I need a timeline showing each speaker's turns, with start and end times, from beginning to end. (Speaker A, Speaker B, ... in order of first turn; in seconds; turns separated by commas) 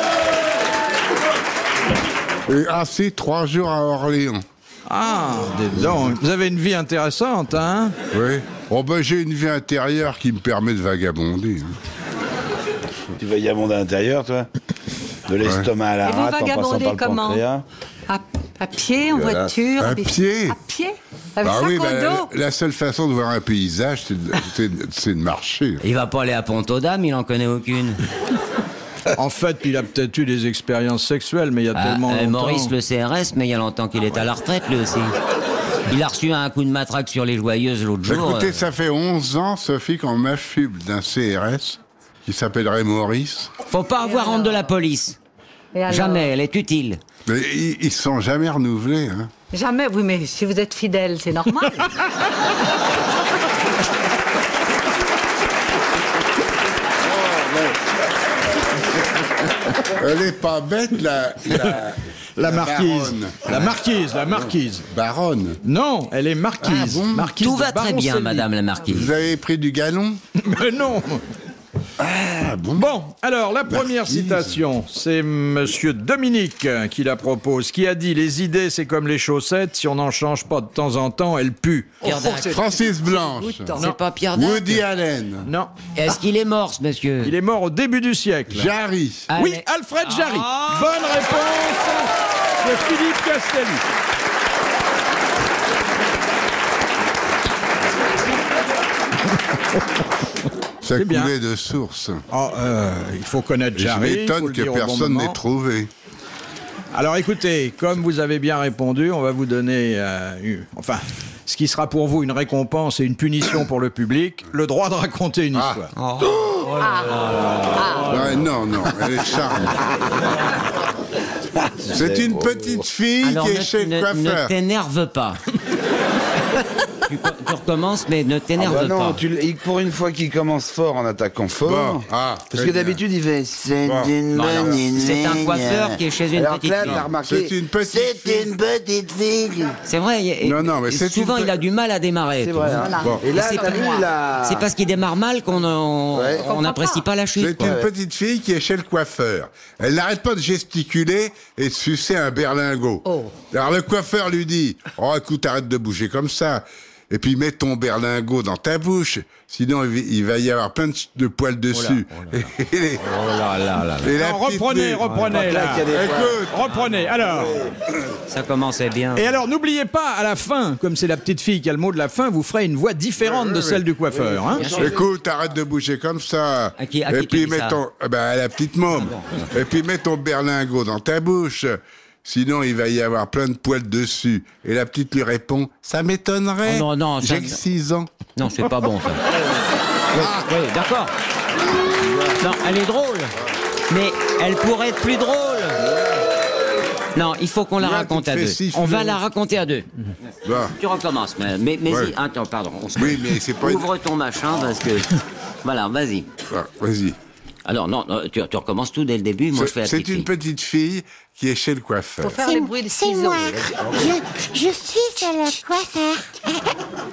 Speaker A: 2.5-4.4, Speaker B: 4.9-7.9, Speaker A: 8.1-11.8, Speaker C: 13.1-14.5, Speaker C: 15.3-17.6, Speaker A: 15.4-15.7, Speaker D: 16.0-17.4, Speaker D: 18.1-22.3, Speaker C: 19.1-19.6, Speaker A: 19.8-20.6, Speaker A: 21.4-25.8, Speaker E: 25.8-28.0, Speaker B: 29.1-32.7, Speaker E: 31.7-35.1, Speaker E: 35.9-38.6, Speaker A: 38.0-43.5, Speaker E: 43.7-45.2, Speaker D: 44.0-44.6, Speaker D: 45.7-46.3, Speaker E: 45.9-47.0, Speaker A: 47.2-49.3, Speaker D: 49.5-51.9, Speaker A: 57.0-57.8, Speaker A: 59.8-63.7, Speaker B: 62.4-64.9, Speaker A: 64.9-65.6, Speaker B: 65.6-68.4, Speaker A: 66.6-67.3, Speaker E: 67.4-69.1, Speaker A: 68.9-70.2, Speaker B: 70.3-71.2, Speaker A: 72.0-72.9, Speaker B: 72.7-82.0, Speaker A: 73.7-74.6, Speaker E: 82.0-82.6, Speaker D: 82.0-83.9, Speaker A: 82.4-83.7, Speaker E: 83.8-84.8, Speaker A: 84.3-85.5, Speaker B: 85.4-85.7, Speaker E: 85.9-87.3, Speaker B: 87.2-88.7, Speaker A: 88.5-89.3, Speaker E: 89.3-90.9, Speaker B: 89.3-93.8, Speaker A: 100.8-102.2, Speaker B: 101.0-101.3, Speaker B: 102.3-105.4, Speaker A: 103.7-105.9, Speaker B: 106.9-115.9, Speaker A: 115.5-115.8, Speaker E: 116.0-118.4, Speaker D: 116.8-118.1, Speaker A: 118.1-119.8, Speaker C: 121.6-122.8, Speaker A: 121.9-124.5, Speaker E: 123.2-125.4, Speaker E: 127.1-129.2, Speaker C: 128.6-139.8, Speaker A: 131.6-133.0, Speaker A: 133.8-134.8, Speaker E: 134.3-137.0, Speaker A: 137.2-138.5, Speaker E: 139.8-147.8, Speaker A: 140.4-141.6, Speaker C: 142.4-144.7, Speaker D: 142.7-144.1, Speaker C: 146.1-146.6, Speaker D: 146.5-147.0, Speaker A: 147.4-163.1, Speaker C: 147.6-147.9, Speaker D: 153.1-153.3, Speaker E: 161.7-162.5, Speaker E: 163.0-164.1, Speaker A: 164.0-165.1, Speaker B: 164.2-165.9, Speaker C: 165.3-166.4, Speaker A: 165.9-166.6, Speaker B: 166.5-167.6, Speaker C: 167.2-167.8, Speaker E: 168.3-169.3, Speaker B: 169.2-174.7, Speaker A: 173.2-173.8, Speaker C: 174.1-175.1, Speaker E: 174.6-174.9, Speaker A: 174.7-188.1, Speaker E: 176.8-177.8, Speaker E: 179.0-179.4, Speaker E: 186.6-187.6, Speaker E: 188.3-189.2, Speaker A: 190.1-190.5, Speaker E: 190.1-191.1, Speaker E: 192.3-193.3, Speaker E: 193.9-195.8, Speaker E: 197.1-199.8, Speaker A: 197.8-199.2, Speaker A: 200.4-200.7, Speaker E: 200.8-206.3, Speaker A: 201.9-202.1, Speaker A: 202.9-203.9, Speaker A: 206.5-207.2, Speaker E: 207.6-210.3, Speaker A: 209.5-212.5, Speaker D: 212.2-213.8, Speaker F: 212.4-216.4